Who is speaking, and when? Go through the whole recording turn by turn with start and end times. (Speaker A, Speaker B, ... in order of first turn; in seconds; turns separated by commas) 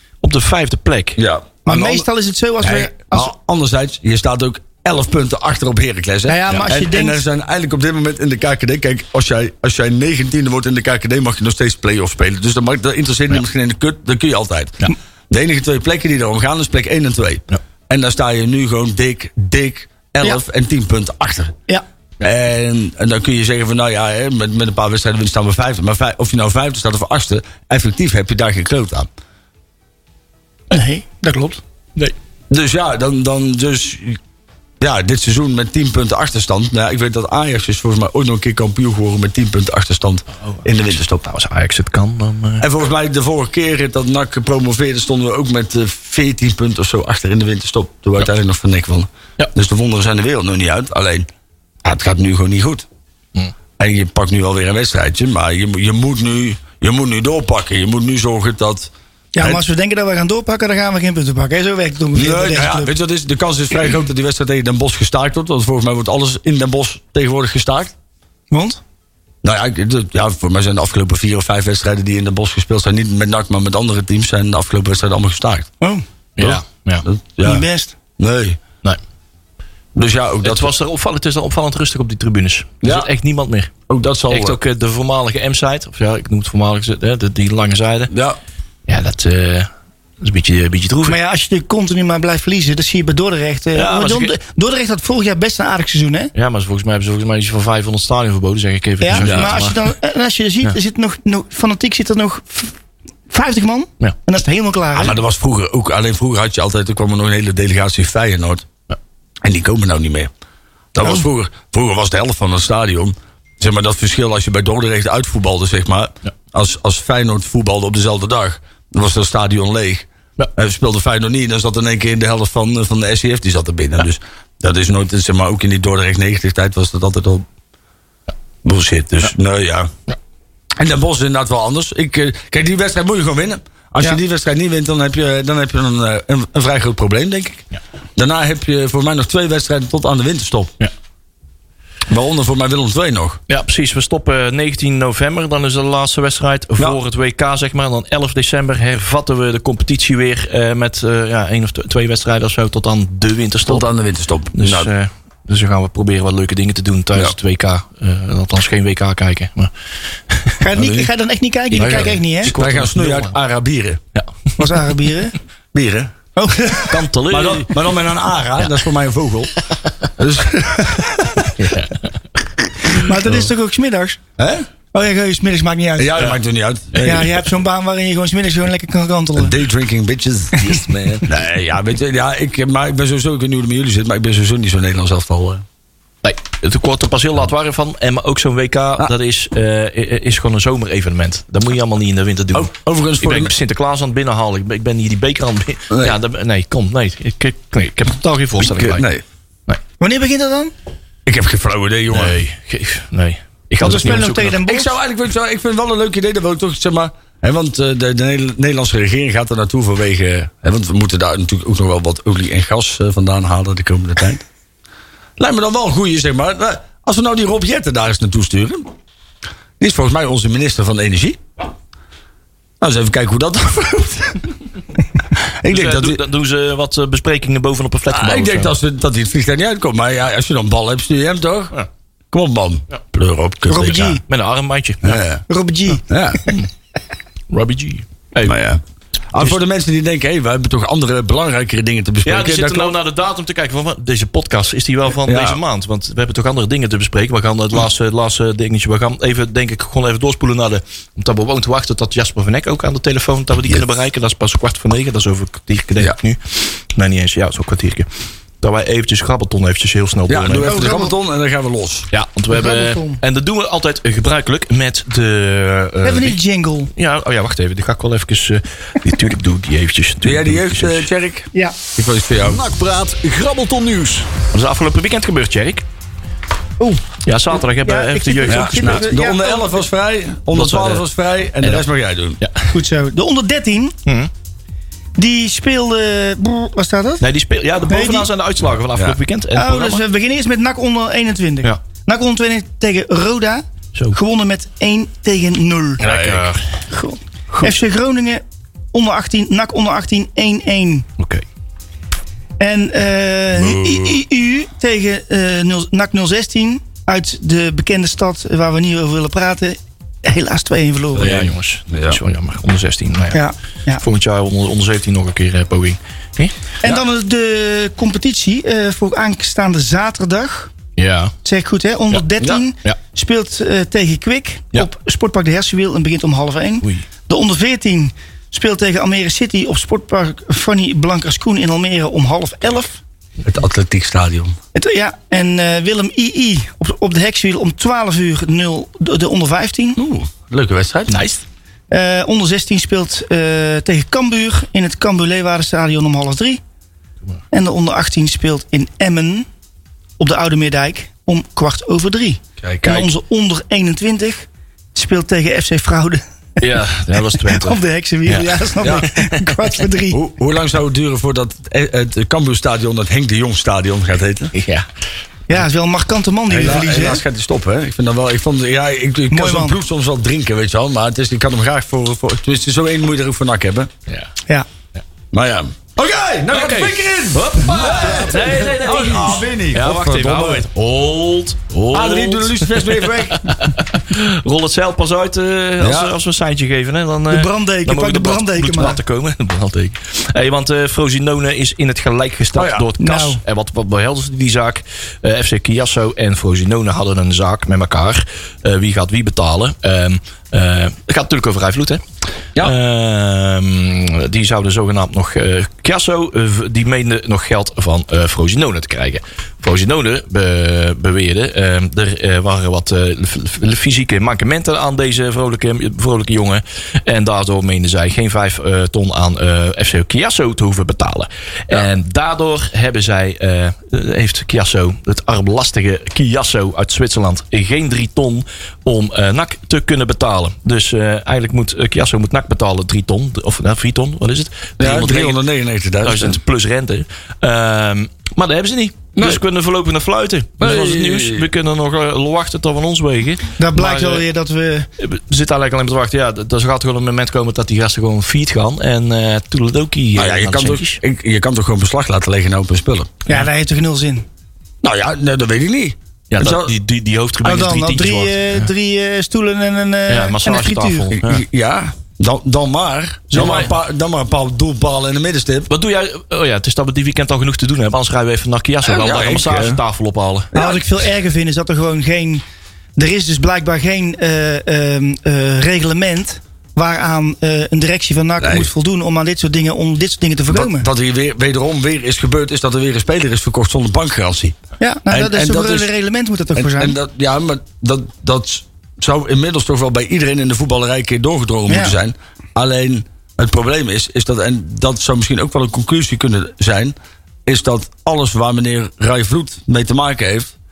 Speaker A: 0.2-1.2, Speaker B: 1.2-2.1, Speaker C: 1.6-3.3, Speaker B: 2.6-21.5, Speaker C: 6.2-7.2, Speaker B: 22.2-29.1, Speaker C: 30.7-31.6, Speaker B: 32.5-34.2, Speaker B: 34.8-41.2, Speaker A: 40.5-42.6, Speaker B: 42.6-51.3, Speaker B: 51.8-52.9, Speaker B: 53.8-59.6, Speaker C: 59.4-62.9, Speaker B: 62.1-67.9, Speaker C: 68.5-68.8, Speaker B: 69.4-75.7, Speaker A: 76.4-77.0, Speaker B: 76.4-77.6, Speaker C: 77.4-77.9, Speaker B: 78.2-78.6, Speaker B: 79.9-80.7, Speaker A: 80.4-83.7, Speaker B: 82.8-83.1, Speaker B: 83.9-84.6, Speaker A: 84.3-88.1, Speaker B: 88.1-88.4, Speaker A: 88.9-89.7, Speaker A: 90.2-91.2, Speaker C: 91.1-96.3, Speaker A: 93.7-94.3, Speaker A: 96.3-99.8, Speaker C: 99.0-102.7, Speaker B: 99.1-99.6, Speaker C: 103.3-105.2, Speaker B: 104.9-108.7, Speaker B: 109.4-110.3, Speaker B: 110.9-127.5, Speaker B: 128.6-129.9, Speaker B: 130.8-137.6, Speaker B: 138.2-140.7, Speaker B: 142.1-143.4, Speaker A: 143.5-153.9, Speaker B: 153.7-154.9, Speaker A: 154.5-159.7, Speaker C: 160.6-162.5, Speaker B: 160.7-161.1, Speaker A: 161.7-163.3, Speaker B: 161.7-164.0, Speaker C: 164.6-165.3, Speaker B: 165.7-166.1, Speaker C: 166.4-167.0, Speaker A: 166.9-167.8, Speaker B: 167.3-169.5, Speaker B: 170.2-171.5, Speaker A: 171.6-172.0, Speaker C: 172.8-174.2, Speaker B: 174.4-174.7, Speaker C: 174.9-176.3, Speaker B: 176.0-177.3, Speaker A: 176.9-177.3, Speaker C: 177.0-179.6, Speaker B: 179.4-180.6, Speaker A: 180.6-181.3, Speaker B: 181.2-185.6, Speaker A: 186.2-199.0, Speaker B: 192.5-193.5, Speaker B: 195.9-196.2, Speaker B: 198.6-199.2, Speaker C: 200.0-200.7, Speaker B: 201.2-202.4, Speaker A: 202.1-204.6, Speaker C: 203.8-204.9, Speaker B: 204.6-214.4, Speaker B: 215.4-218.9, Speaker B: 219.8-221.4, Speaker B: 222.8-224.5, Speaker B: 225.4-226.2, Speaker A: 225.7-228.7, Speaker B: 228.1-231.7, Speaker B: 232.3-234.2, Speaker C: 233.7-234.2, Speaker A: 234.2-235.2, Speaker B: 235.0-235.4, Speaker C: 235.5-236.1, Speaker B: 236.1-236.4, Speaker A: 237.5-238.5, Speaker B: 238.4-242.9, Speaker A: 242.2-258.1, Speaker B: 245.2-245.6, Speaker A: 258.6-260.9, Speaker B: 260.3-262.1, Speaker C: 260.6-261.1, Speaker A: 262.1-266.4, Speaker C: 262.5-263.2, Speaker C: 266.0-266.9, Speaker A: 266.9-271.1, Speaker B: 270.2-272.6, Speaker D: 272.4-274.3, Speaker A: 274.5-275.8, Speaker C: 276.8-279.8, Speaker A: 277.2-279.1, Speaker B: 278.5-282.4, Speaker A: 280.5-281.0, Speaker A: 282.4-282.7, Speaker C: 282.7-283.9, Speaker C: 285.2-287.2, Speaker A: 287.2-290.0, Speaker C: 287.9-288.3, Speaker C: 289.5-296.0, Speaker B: 296.0-296.5, Speaker A: 296.0-296.6, Speaker C: 296.9-298.4, Speaker C: 298.9-301.1, Speaker A: 301.2-301.4, Speaker C: 302.6-311.3, Speaker B: 303.5-304.2, Speaker B: 311.1-312.2, Speaker A: 311.1-313.4, Speaker C: 313.3-314.0, Speaker A: 314.0-316.5, Speaker C: 316.8-320.7, Speaker A: 321.0-321.3, Speaker C: 321.4-333.0, Speaker B: 333.4-334.6, Speaker C: 334.7-340.0, Speaker B: 340.0-341.2, Speaker A: 341.1-341.4, Speaker C: 341.9-346.6, Speaker C: 347.5-349.5, Speaker C: 350.2-356.2, Speaker B: 352.6-353.1, Speaker A: 356.6-359.5, Speaker C: 357.3-360.2, Speaker B: 360.1-364.5, Speaker A: 364.5-364.9, Speaker C: 365.5-367.2, Speaker B: 366.5-373.9, Speaker C: 369.3-369.8, Speaker B: 375.3-380.6, Speaker A: 376.5-402.0, Speaker B: 381.9-383.6, Speaker B: 385.8-386.1, Speaker C: 387.3-389.0, Speaker B: 392.5-392.9, Speaker C: 393.0-393.4, Speaker A: 402.6-435.4, Speaker B: 434.8-436.4, Speaker A: 436.0-444.2, Speaker B: 439.1-439.4, Speaker B: 440.6-441.5, Speaker C: 443.6-444.9, Speaker A: 445.0-451.0, Speaker B: 450.1-453.2, Speaker C: 453.2-454.2, Speaker B: 454.8-456.7, Speaker A: 456.3-458.7, Speaker C: 457.4-461.1, Speaker A: 460.1-461.4, Speaker B: 461.1-465.7, Speaker A: 463.3-463.7, Speaker A: 465.7-470.5, Speaker B: 468.8-469.8, Speaker B: 470.5-470.8, Speaker C: 470.5-472.4, Speaker C: 473.0-480.9, Speaker B: 478.4-478.7, Speaker B: 480.5-484.6, Speaker C: 484.8-486.9, Speaker B: 485.1-485.9, Speaker B: 486.5-496.9, Speaker C: 491.7-491.9, Speaker B: 497.4-500.5